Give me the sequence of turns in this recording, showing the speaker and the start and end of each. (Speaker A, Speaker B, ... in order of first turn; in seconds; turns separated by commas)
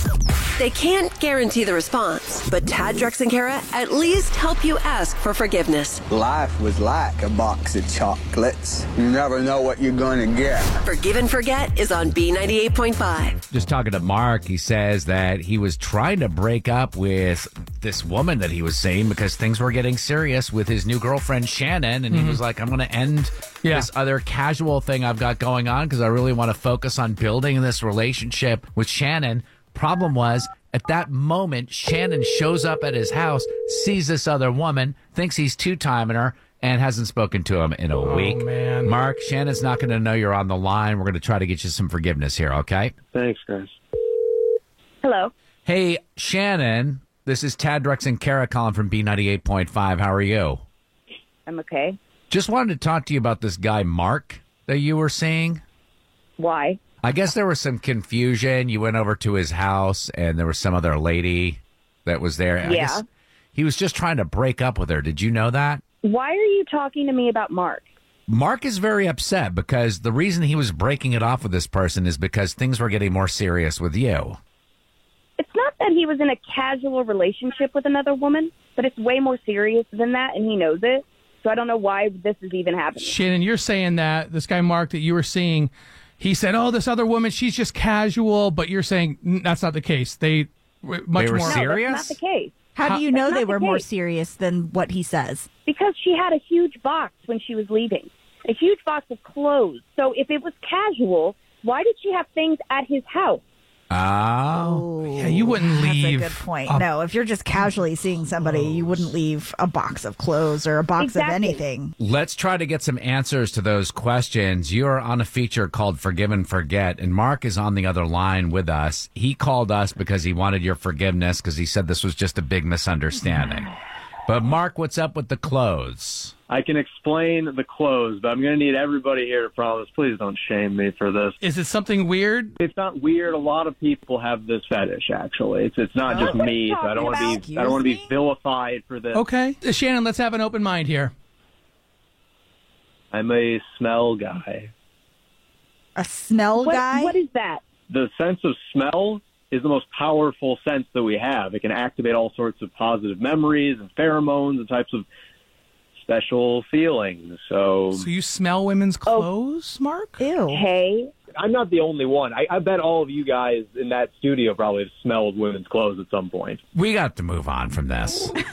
Speaker A: 0.6-6.0, Speaker B: 6.1-10.8, Speaker A: 10.8-13.4, Speaker C: 13.5-42.9, Speaker D: 22.1-22.4, Speaker D: 38.0-38.9, Speaker E: 43.1-43.8, Speaker F: 45.0-45.3, Speaker C: 45.7-50.6, Speaker F: 51.5-52.0, Speaker C: 52.3-55.6, Speaker F: 56.4-56.8, Speaker C: 57.0-63.0, Speaker F: 62.6-63.0, Speaker C: 63.5-65.8, Speaker F: 66.0-67.9, Speaker C: 68.3-74.4, Speaker F: 75.4-83.2, Speaker D: 83.0-91.7, Speaker C: 91.2-92.2, Speaker F: 91.4-92.5, Speaker G: 92.8-95.5, Speaker F: 93.1-93.8, Speaker F: 95.7-103.4, Speaker C: 103.9-105.0, Speaker G: 104.5-111.9, Speaker D: 105.2-106.9, Speaker D: 108.4-109.1, Speaker F: 111.0-111.6, Speaker C: 112.0-126.3, Speaker E: 126.5-131.4, Speaker D: 131.4-132.5, Speaker E: 132.6-139.2, Speaker G: 136.1-138.1, Speaker F: 136.2-137.4, Speaker D: 139.1-141.1, Speaker E: 143.1-144.7, Speaker G: 146.0-147.2, Speaker F: 146.6-147.6, Speaker E: 147.9-155.1, Speaker E: 156.1-158.1, Speaker D: 157.9-160.2, Speaker G: 160.2-160.6, Speaker F: 160.5-161.1, Speaker E: 161.4-166.6, Speaker C: 166.7-168.4